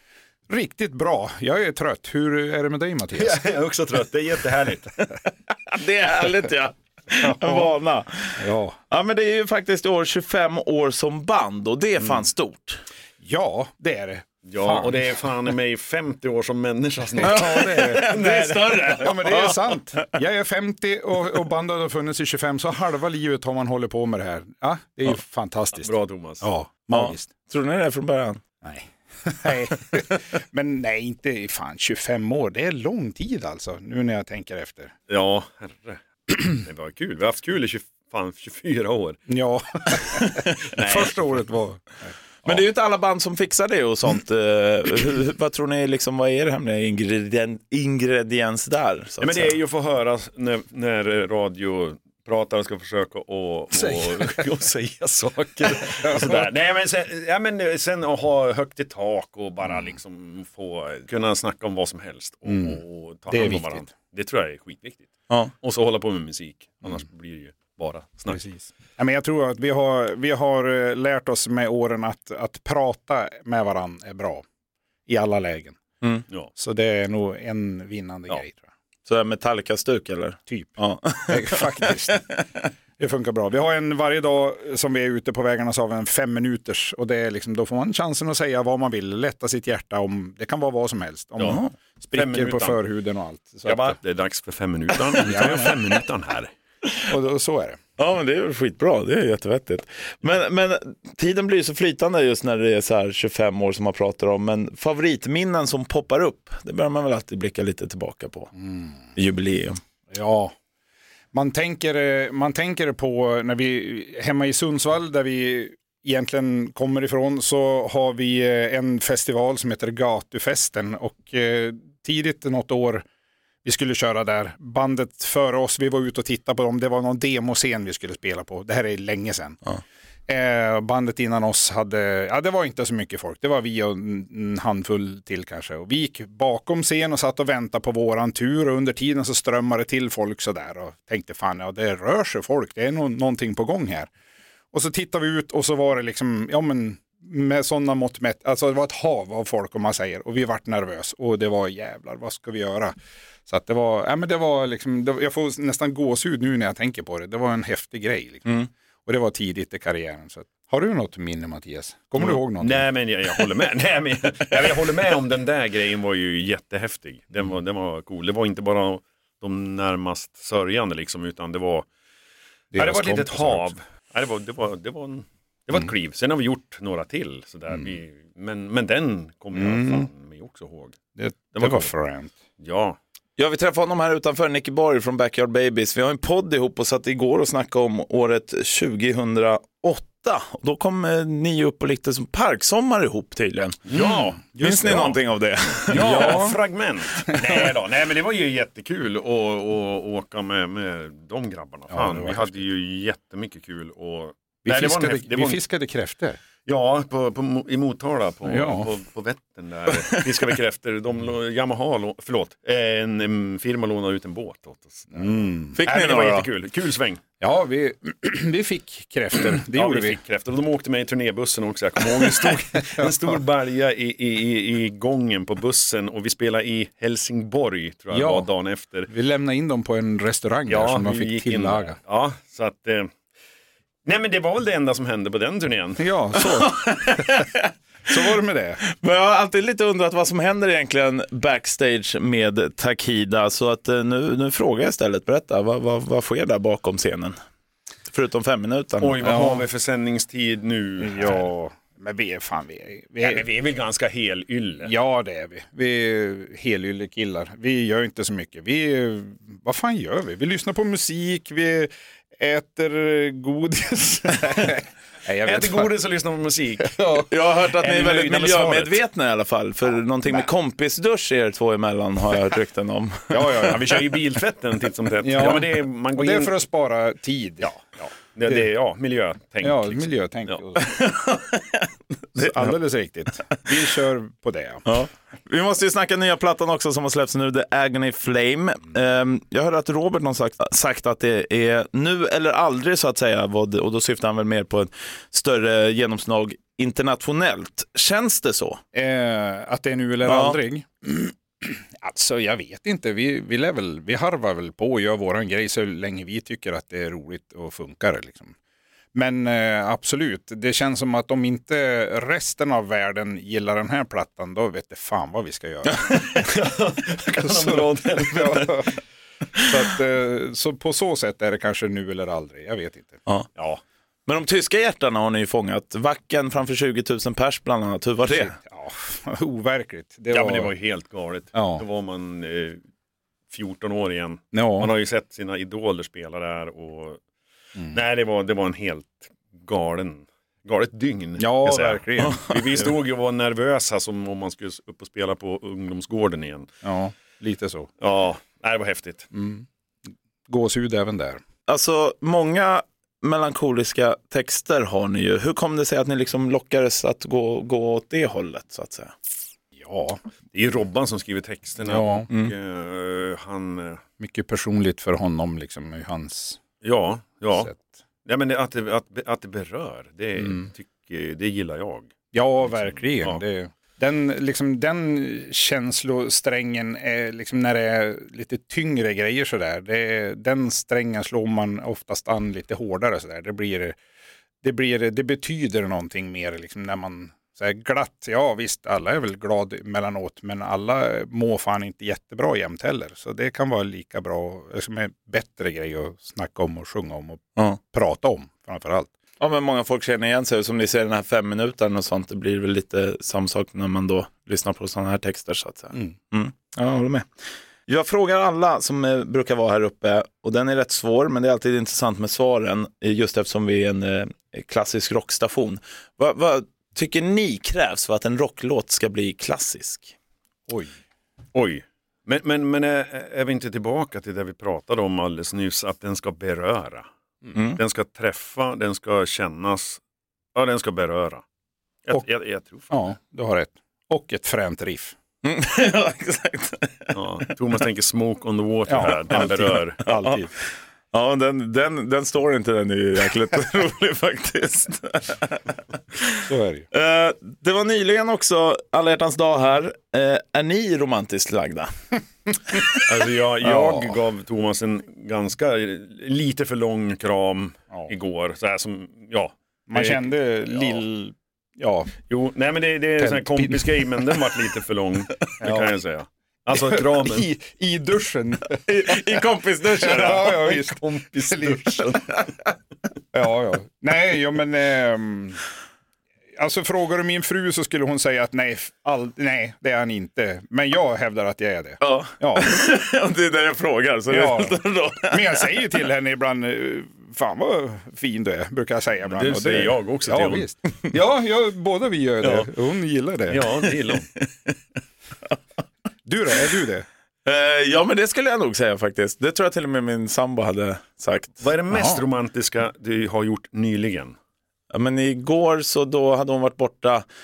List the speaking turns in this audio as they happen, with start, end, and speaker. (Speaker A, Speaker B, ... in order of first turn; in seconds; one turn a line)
Speaker A: 0.5-3.4
Speaker B: 3.2-5.0
Speaker C: 5.7-12.8
Speaker A: 7.2-7.7
Speaker A: 8.4-8.8
Speaker A: 13.2-14.9
Speaker B: 14.4-18.7
Speaker A: 17.1-27.3
Speaker C: 17.2-19.8
Speaker B: 25.8-26.5
Speaker C: 26.9-28.4
Speaker A: 28.6-34.9
Speaker B: 35.1-39.2
Speaker A: 39.3-42.6
Speaker B: 40.7-41.2
Speaker C: 42.4-49.5
Speaker B: 49.2-68.4
Speaker A: 53.7-54.4
Speaker A: 55.9-56.5
Speaker A: 62.5-62.8
Speaker A: 63.3-63.9
Speaker A: 68.3-74.4
Speaker A: 75.1-75.8
Speaker A: 76.5-78.6
Speaker C: 79.1-81.9
Speaker A: 80.5-82.3
Speaker A: 83.0-94.0
Speaker C: 91.5-91.7
Speaker B: 92.1-92.8
Speaker B: 93.7-96.5
Speaker A: 95.2-95.8
Speaker A: 97.0-97.8
Speaker C: 98.0-108.5
Speaker A: 108.6-108.9
Speaker C: 109.1-109.8
Speaker A: 110.1-110.5
Speaker A: 111.3-123.0
Speaker A: 123.6-129.7
Speaker A: 130.3-144.1
Speaker A: 144.7-152.9
Speaker A: 153.5-162.8
Speaker B: 162.2-171.9
Speaker A: 172.7-173.7
Speaker B: 172.7-181.0
Speaker A: 179.5-180.1
Speaker A: 181.2-182.3
Speaker B: 181.5-181.9
Speaker B: 182.6-183.0
Speaker C: 183.4-193.9
Speaker B: 193.9-195.1
Speaker A: 193.9-195.2
Speaker C: 194.6-196.6
Speaker B: 195.9-205.6
Speaker A: 195.9-196.4
Speaker A: 201.9-202.6
Speaker A: 204.6-206.4
Speaker B: 206.6-215.3
Speaker A: 208.4-208.9
Speaker A: 215.1-215.8
Speaker C: 215.7-216.5
Speaker B: 215.8-217.2
Speaker A: 217.4-220.2
Speaker B: 219.7-229.1
Speaker A: 228.1-228.5
Speaker A: 229.1-232.0
Speaker B: 230.7-233.1
Speaker B: 234.0-236.0
Speaker A: 236.0-237.4
Speaker C: 236.4-237.7
Speaker A: 238.1-238.8
Speaker C: 239.0-247.3
Speaker C: 248.1-249.5
Speaker B: 249.0-251.4
Speaker A: 249.2-249.6
Speaker A: 251.0-253.4
Speaker B: 253.2-254.9
Speaker A: 254.8-265.9
Speaker B: 265.4-267.2
Speaker A: 266.8-267.3
Speaker C: 267.3-273.7
Speaker B: 267.7-269.0
Speaker A: 273.3-273.8
Speaker B: 273.7-276.5
Speaker A: 275.2-277.8
Speaker B: 277.6-280.6
Speaker A: 279.6-280.9
Speaker C: 280.8-281.9
Speaker A: 282.3-284.8
Speaker C: 282.4-282.7
Speaker C: 284.8-298.8
Speaker A: 298.9-308.5
Speaker C: 300.2-300.6
Speaker A: 309.1-316.5
Speaker B: 316.1-318.9
Speaker A: 317.4-319.0
Speaker A: 319.6-323.2
Speaker B: 323.6-323.8
Speaker C: 324.2-328.6
Speaker A: 328.3-330.7
Speaker B: 330.3-332.8
Speaker A: 331.5-331.8
Speaker B: 333.5-337.2
Speaker A: 334.5-334.9
Speaker B: 337.9-346.7
Speaker A: 341.4-342.9
Speaker A: 346.8-347.9
Speaker B: 348.0-349.3
Speaker A: 349.3-349.6
Speaker A: 350.5-351.4
Speaker C: 351.7-359.1
Speaker A: 359.8-360.2
Speaker B: 360.5-364.0
Speaker A: 361.9-362.3
Speaker A: 364.2-366.6
Speaker B: 366.8-367.7
Speaker A: 367.5-367.9
Speaker B: 368.2-372.1
Speaker A: 372.3-383.9
Speaker A: 384.6-399.1
Speaker C: 399.4-407.2
Speaker C: 407.9-420.1
Speaker B: 421.5-427.1
Speaker C: 427.5-427.8
Speaker B: 427.8-430.0
Speaker B: 430.5-431.4
Speaker B: 432.1-432.9
Speaker A: 432.9-435.1
Speaker C: 435.4-437.2
Speaker B: 437.1-440.0
Speaker A: 438.9-440.5
Speaker C: 441.1-445.6
Speaker A: 446.4-446.9
Speaker C: 446.9-451.9
Speaker C: 452.7-453.0
Speaker B: 453.0-461.0
Speaker A: 459.9-462.2
Speaker B: 462.3-467.5
Speaker A: 463.2-464.0
Speaker A: 465.6-465.9
Speaker A: 466.7-472.2
Speaker C: 468.8-470.8
Speaker B: 470.4-472.2
Speaker A: 473.3-475.6
Speaker A: 476.6-482.9
Speaker C: 482.0-485.7
Speaker A: 484.3-493.7
Speaker B: 489.3-490.6
Speaker B: 492.4-492.7
Speaker B: 493.5-494.3
Speaker A: 496.2-497.1
Speaker C: 497.4-501.6
Speaker B: 501.6-504.3
Speaker A: 501.9-502.2
Speaker C: 504.9-507.2